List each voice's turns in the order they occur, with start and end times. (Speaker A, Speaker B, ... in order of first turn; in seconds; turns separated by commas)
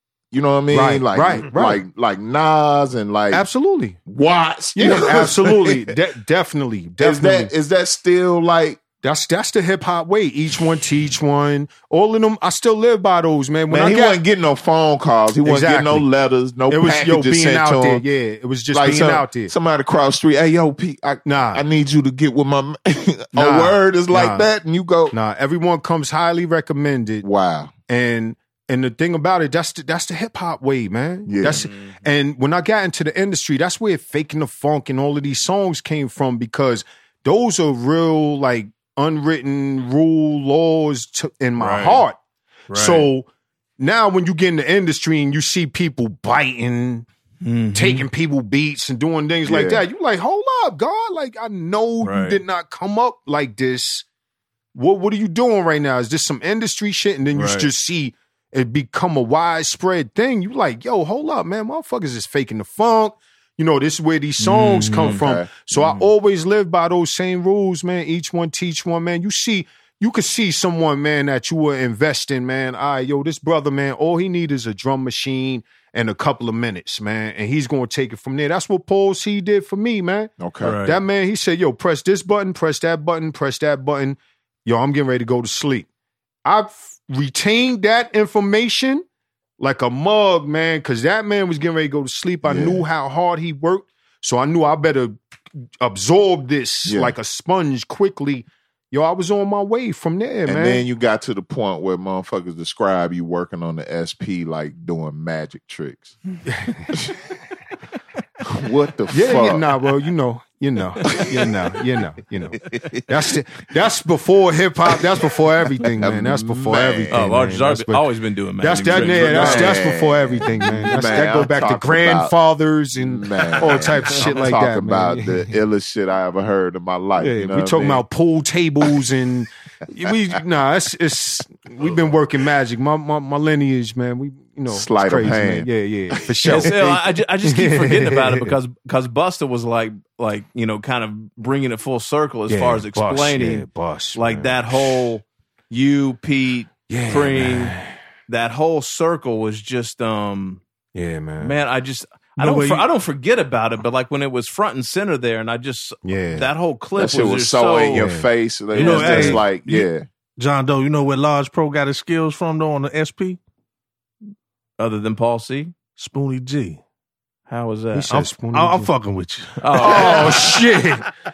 Speaker A: 0.3-3.5, Speaker B: 0.7-1.8, Speaker B: 3.3-4.0, Speaker A: 4.0-5.9, Speaker B: 4.7-7.5, Speaker A: 7.0-8.8, Speaker B: 9.0-14.2, Speaker A: 13.7-18.0, Speaker B: 15.4-16.1, Speaker B: 16.7-19.5, Speaker A: 18.7-25.1, Speaker B: 21.2-21.6, Speaker B: 23.3-24.5, Speaker B: 25.1-27.2, Speaker A: 27.2-27.7, Speaker B: 27.9-42.2, Speaker A: 31.2-31.7, Speaker C: 31.5-32.0, Speaker C: 41.6-42.0, Speaker C: 42.7-43.1, Speaker B: 42.7-43.3, Speaker B: 43.8-47.0, Speaker C: 47.4-48.1, Speaker B: 47.7-54.0, Speaker A: 49.4-49.8, Speaker C: 52.0-52.4, Speaker B: 54.7-80.3, Speaker C: 57.3-57.7, Speaker C: 64.4-65.2, Speaker A: 65.0-65.7, Speaker C: 65.8-66.0, Speaker A: 80.4-80.7, Speaker C: 80.6-81.0, Speaker B: 80.8-85.9, Speaker B: 86.4-89.0, Speaker B: 89.6-95.2, Speaker A: 92.4-92.8, Speaker B: 95.8-100.8, Speaker A: 96.8-97.1, Speaker A: 100.5-106.1, Speaker B: 106.5-107.0, Speaker A: 106.9-107.2, Speaker A: 108.4-109.7, Speaker B: 109.1-118.0, Speaker A: 111.1-111.5, Speaker A: 112.7-113.0, Speaker A: 116.0-117.2, Speaker C: 117.1-119.8, Speaker B: 118.6-125.5, Speaker A: 119.0-122.3, Speaker A: 122.9-128.0, Speaker B: 127.2-138.6, Speaker A: 134.7-136.7, Speaker C: 136.4-147.8, Speaker B: 142.5-145.1, Speaker B: 146.9-147.9, Speaker C: 148.3-150.6, Speaker B: 150.9-151.6, Speaker C: 151.4-158.1, Speaker D: 152.4-152.8, Speaker B: 156.0-156.5, Speaker A: 157.0-160.1, Speaker B: 157.9-158.3, Speaker C: 158.7-159.4, Speaker D: 158.7-159.8, Speaker D: 160.4-163.4, Speaker C: 164.8-165.7, Speaker D: 166.0-166.8, Speaker C: 167.5-168.1, Speaker B: 167.9-168.9, Speaker D: 168.1-170.4, Speaker C: 169.6-170.5, Speaker B: 169.8-171.1